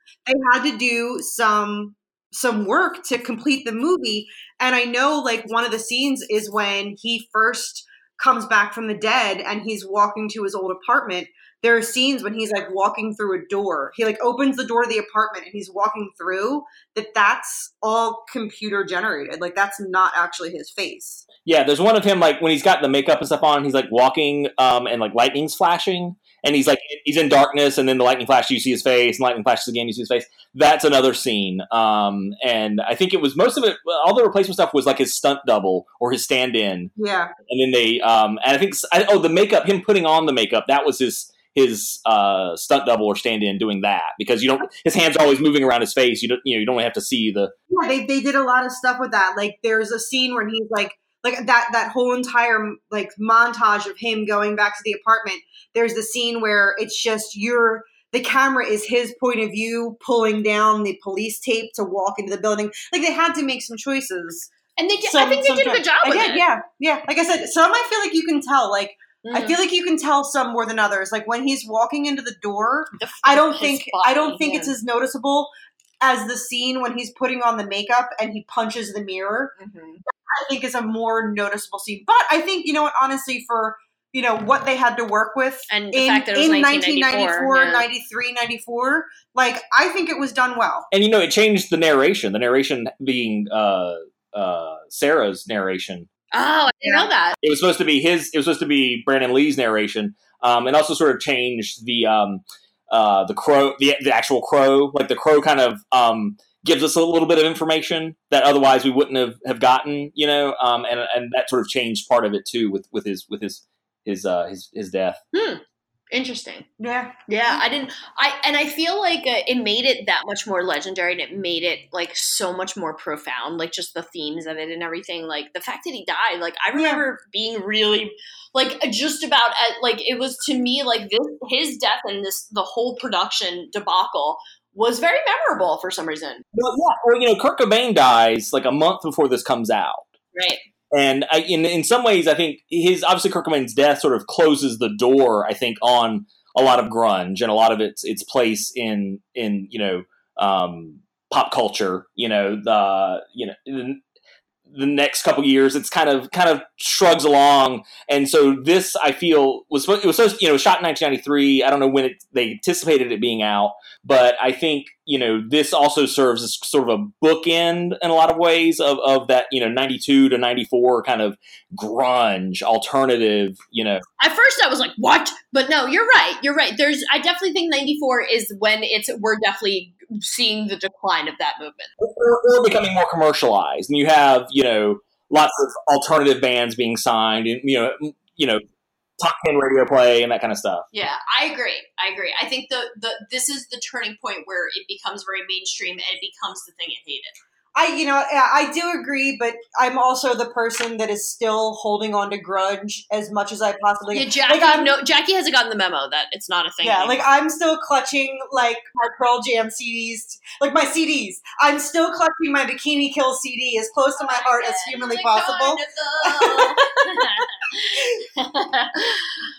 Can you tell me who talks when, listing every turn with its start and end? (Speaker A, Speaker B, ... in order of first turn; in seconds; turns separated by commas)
Speaker A: 0.3-21.3, Speaker B: 21.4-36.9, Speaker A: 37.0-37.3, Speaker B: 37.5-47.5, Speaker A: 47.7-64.5, Speaker C: 64.8-66.5, Speaker A: 65.0-79.5, Speaker C: 69.2-69.6, Speaker C: 73.0-74.8, Speaker C: 79.6-80.0, Speaker A: 80.3-90.9, Speaker C: 85.7-87.9, Speaker B: 90.9-96.1, Speaker C: 96.3-97.3, Speaker A: 96.8-97.1, Speaker B: 97.4-115.2, Speaker C: 115.3-116.7, Speaker A: 116.8-117.6, Speaker C: 117.3-136.4, Speaker A: 126.7-127.0, Speaker B: 136.5-140.1, Speaker C: 140.3-140.6, Speaker B: 140.9-154.0, Speaker B: 154.7-174.0, Speaker C: 174.2-181.9, Speaker B: 182.0-188.6, Speaker B: 189.2-190.8, Speaker C: 190.9-197.4, Speaker A: 197.8-204.9, Speaker C: 204.1-207.2, Speaker A: 206.8-216.9, Speaker C: 214.2-219.4